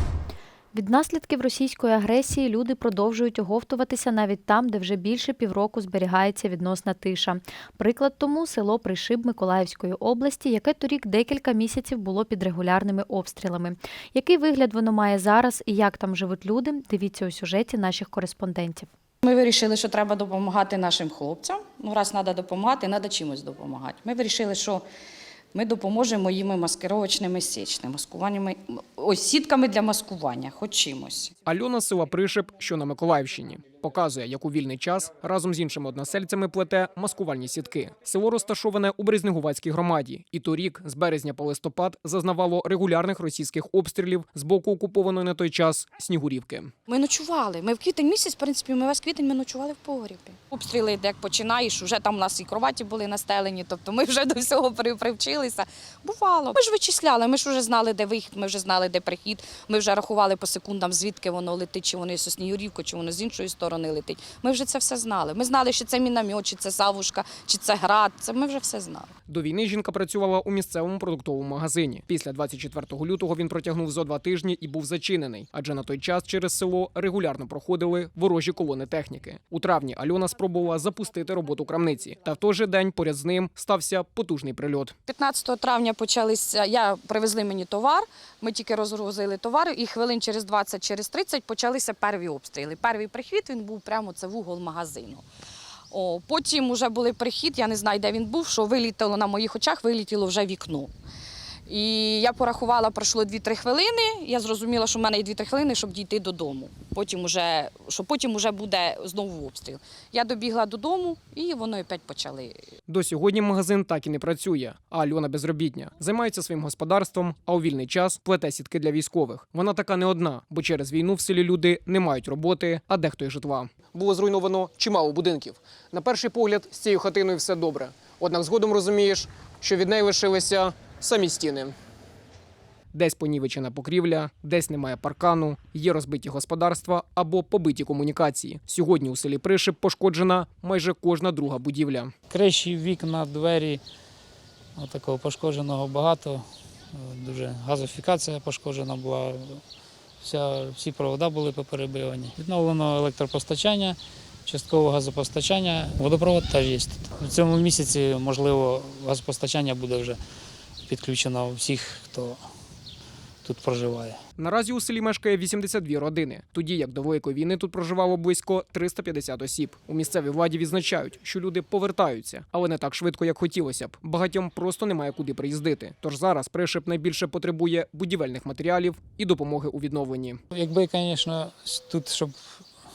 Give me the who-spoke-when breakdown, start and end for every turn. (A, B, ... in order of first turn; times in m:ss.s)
0:00.7-0:18.9 A
0:19.2-0:24.9 B
0:25.5-0:31.3 B
0:31.5-0:46.7 C
0:46.9-1:09.1 B
1:09.3-1:25.0 C
1:25.1-1:35.3 B
1:35.9-1:40.9 B
1:41.7-1:52.6 B
1:52.9-2:11.8 C
2:12.9-2:22.1 C
2:22.3-2:23.8 D
2:24.8-2:29.6 D
2:30.2-2:40.2 D
2:40.9-2:42.4 D
2:43.4-2:44.2 D
2:44.4-3:00.4 C
3:00.5-3:02.4 D